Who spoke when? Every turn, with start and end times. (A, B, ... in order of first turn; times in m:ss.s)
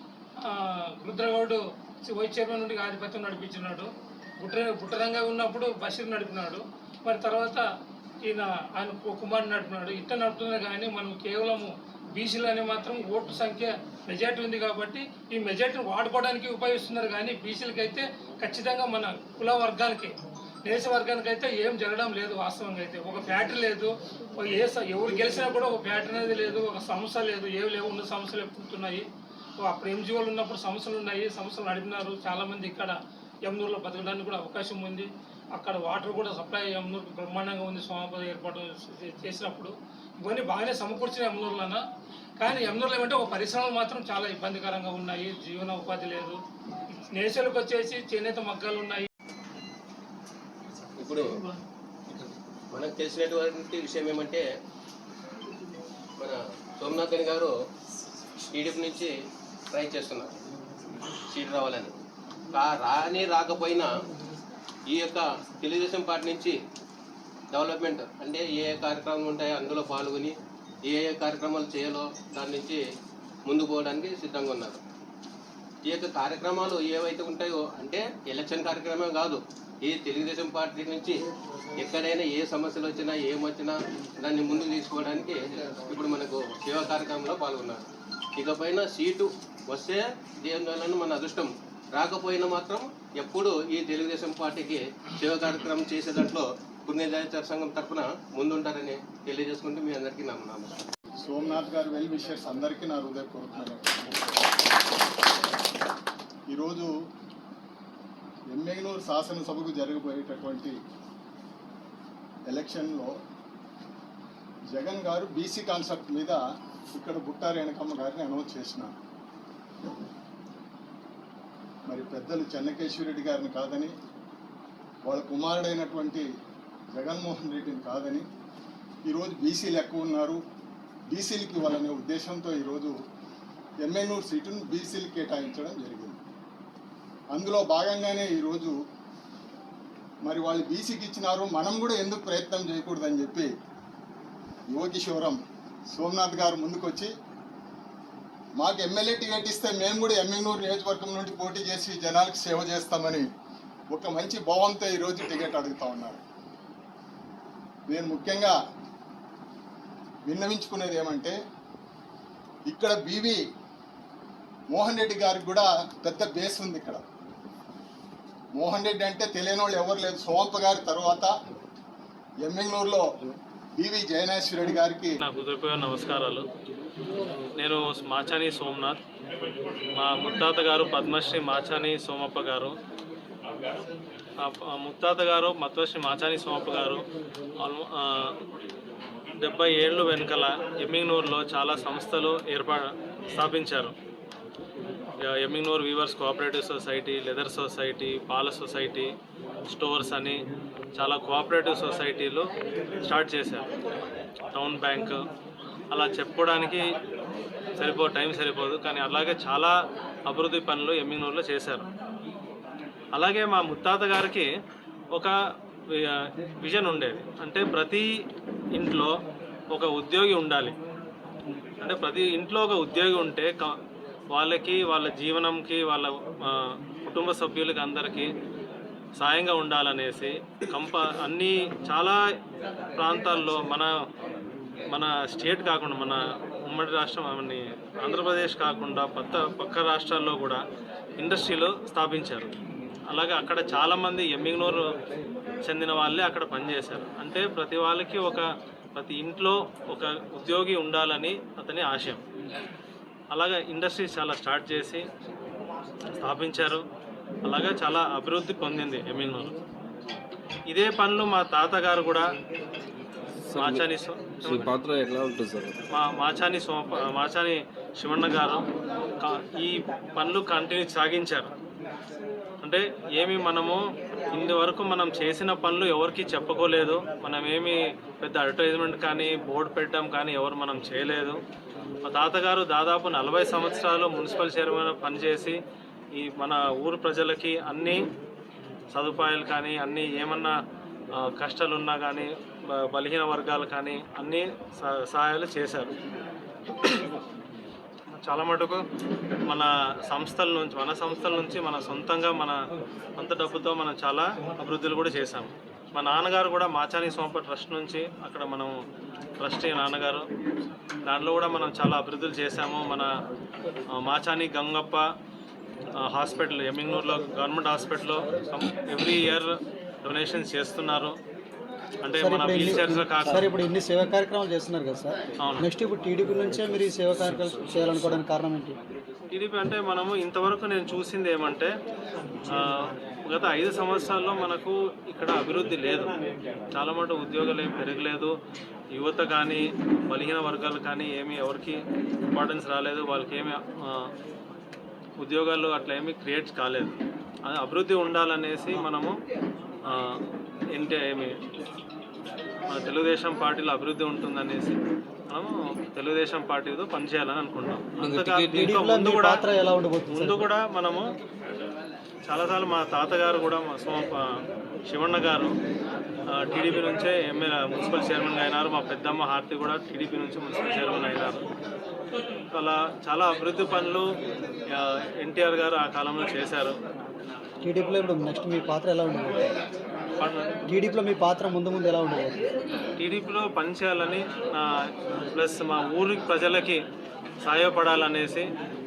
0:00.4-0:07.6 A
0:08.2-0:20.1 A
0:20.6-0:29.0 A
0:29.6-0:41.8 A
0:42.4-0:46.4 A
0:46.9-0:49.1 A
0:51.0-0:51.3 B
0:52.7-0:54.4 B
0:56.2-0:57.5 B
0:58.5-0:59.1 B
0:59.7-1:00.4 B
1:01.3-1:01.9 B
1:02.5-1:03.9 B
1:04.9-1:06.6 B
1:07.5-1:10.3 B
1:10.8-1:12.8 B
1:13.5-1:14.8 B
1:15.8-1:21.2 B
1:21.8-1:27.8 B
1:28.4-1:40.8 B
1:41.2-1:44.4 C
1:46.5-1:46.9 C
1:48.5-1:50.7 C
1:52.5-1:53.1 C
1:54.7-1:56.4 C
1:56.9-1:58.9 C
2:01.9-2:03.9 C
2:05.0-2:06.2 C
2:06.9-2:08.2 C
2:09.0-2:10.4 C
2:11.1-2:12.9 C
2:13.8-2:16.2 C
2:17.3-2:18.8 C
2:20.2-2:23.5 C
2:24.7-2:27.1 C
2:28.6-2:33.2 C
2:33.9-2:36.2 C
2:37.9-2:38.5 C
2:40.2-2:41.4 C
2:42.7-2:43.4 C
2:44.7-2:47.0 C
2:48.5-2:51.3 C
2:52.4-2:53.1 C
2:53.8-2:55.1 C
2:55.2-2:56.4 D
2:57.6-2:59.0 D
3:00.0-3:02.7 D
3:04.4-3:07.0 D
3:07.6-3:08.3 D
3:09.4-3:13.9 D
3:15.3-3:19.1 D
3:19.7-3:20.4 D
3:21.0-3:22.5 D
3:23.0-3:23.6 D
3:24.5-3:25.1 D
3:25.9-3:26.8 D
3:27.8-3:29.7 D
3:30.3-3:31.9 D
3:33.2-3:34.5 D
3:35.9-3:38.1 D
3:38.8-3:39.1 D
3:39.7-3:40.8 D
3:41.8-3:43.7 D
3:44.3-3:46.5 D
3:47.0-3:48.3 D
3:49.2-3:52.2 D
3:53.0-3:53.9 D
3:54.9-4:00.6 D
4:01.2-4:02.5 D
4:03.1-4:04.8 D
4:05.7-4:08.4 D
4:09.0-4:12.2 D
4:13.3-4:15.0 D
4:16.2-4:16.8 D
4:17.4-4:19.5 D
4:20.7-4:22.3 D
4:23.5-4:23.8 E
4:23.6-4:24.7 D
4:24.4-4:25.8 E
4:25.9-4:28.6 D
4:29.2-4:31.5 D
4:32.6-4:33.8 D
4:34.3-4:41.4 D
4:42.1-4:45.6 D
4:46.2-4:48.0 D
4:48.9-4:50.5 D
4:51.2-4:55.9 D
4:58.2-4:58.8 D
4:59.5-5:02.6 D
5:03.2-5:08.7 D
5:09.4-5:10.2 D
5:11.1-5:13.1 D
5:14.0-5:15.0 D
5:16.1-5:19.5 D
5:20.0-5:21.2 D
5:22.0-5:23.5 D
5:22.2-5:28.8 F
5:29.3-5:31.7 D
5:33.3-5:36.1 D
5:36.7-5:38.3 D
5:38.9-5:41.8 D
5:42.3-5:44.0 D
5:45.2-5:46.9 D
5:47.5-5:49.2 D
5:50.8-5:51.3 D
5:52.7-5:54.8 D
5:55.3-5:59.4 D
5:58.0-5:58.8 E
5:58.6-6:00.4 F
6:00.1-6:01.0 D
6:02.3-6:04.2 D
6:04.9-6:05.5 D
6:06.4-6:11.4 D
6:12.6-6:14.0 D
6:14.7-6:16.8 D
6:17.6-6:19.4 F
6:20.7-6:22.3 F
6:23.0-6:24.6 D
6:25.3-6:26.8 D
6:27.4-6:28.5 D